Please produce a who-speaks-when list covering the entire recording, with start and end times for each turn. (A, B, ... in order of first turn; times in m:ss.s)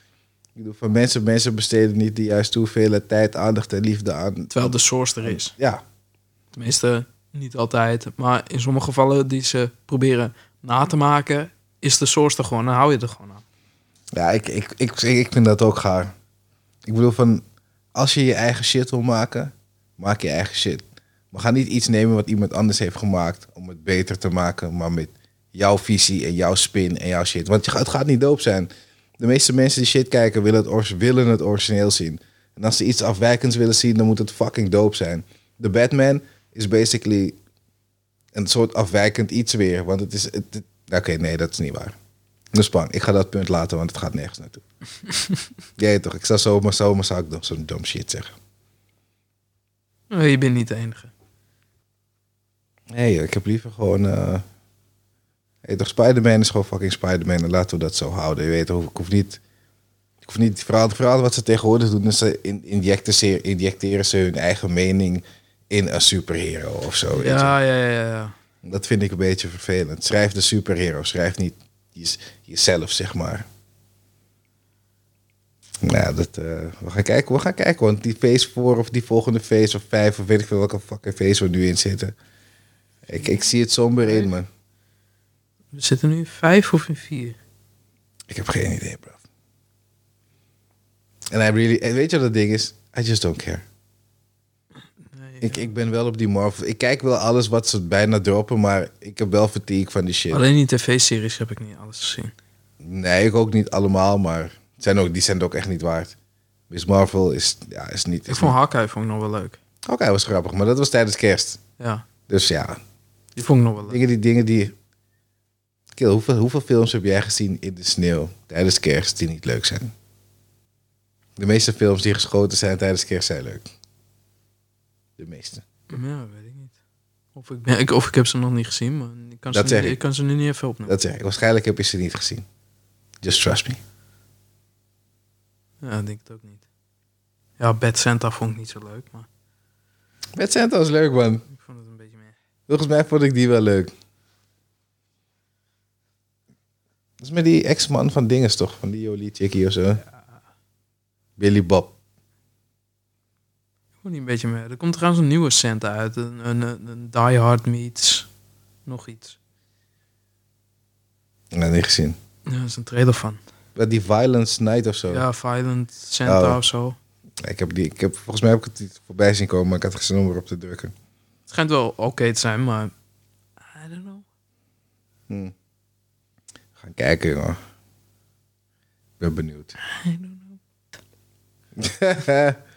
0:00.6-0:05.8 A
0:04.5-0:05.5 B
0:06.5-0:13.4 B
0:14.1-0:16.1 A
0:16.8-0:17.4 A
0:17.9-0:37.4 A
0:38.3-0:42.0 A
0:42.5-0:44.6 A
0:45.8-0:48.3 A
0:50.1-0:51.1 B
0:52.9-0:54.4 A
0:55.6-0:59.4 A
1:00.2-1:07.5 A
1:07.1-1:08.3 B
1:08.6-1:13.5 A
1:15.8-1:22.1 A
1:23.1-1:24.5 A
1:25.7-1:27.4 B
1:28.3-1:29.2 A
1:31.3-1:33.6 A
1:35.1-1:35.7 B
1:35.4-1:40.4 A
1:40.3-1:42.3 B
1:42.8-1:46.1 A
1:46.7-1:48.5 A
1:48.3-1:49.6 B
1:49.8-1:51.6 A
1:51.8-1:52.0 B
1:52.3-1:52.8 A
1:53.4-1:54.0 B
1:53.8-1:54.7 A
1:55.9-1:59.9 A
2:01.4-2:03.7 A
2:05.2-2:05.6 A
2:05.9-2:06.8 B
2:07.3-2:11.0 B
2:09.5-2:10.0 A
2:10.9-2:12.4 A
2:13.2-2:13.8 A
2:15.8-2:16.6 B
2:17.6-2:19.3 B
2:20.4-2:21.4 A
2:21.5-2:22.3 B
2:22.7-2:23.9 A
2:27.2-2:30.0 A
2:31.4-2:31.9 A
2:34.0-2:38.3 B
2:38.8-2:39.4 B
2:41.5-2:42.2 A
2:42.4-2:43.4 B
2:43.8-2:45.3 A
2:45.1-2:47.0 B
2:46.2-2:46.6 A
2:47.4-2:50.9 A
2:51.5-2:52.9 B
2:53.6-2:54.2 B
2:56.8-2:57.6 A
2:59.2-2:59.8 A
2:59.8-3:00.6 B
3:01.8-3:02.6 A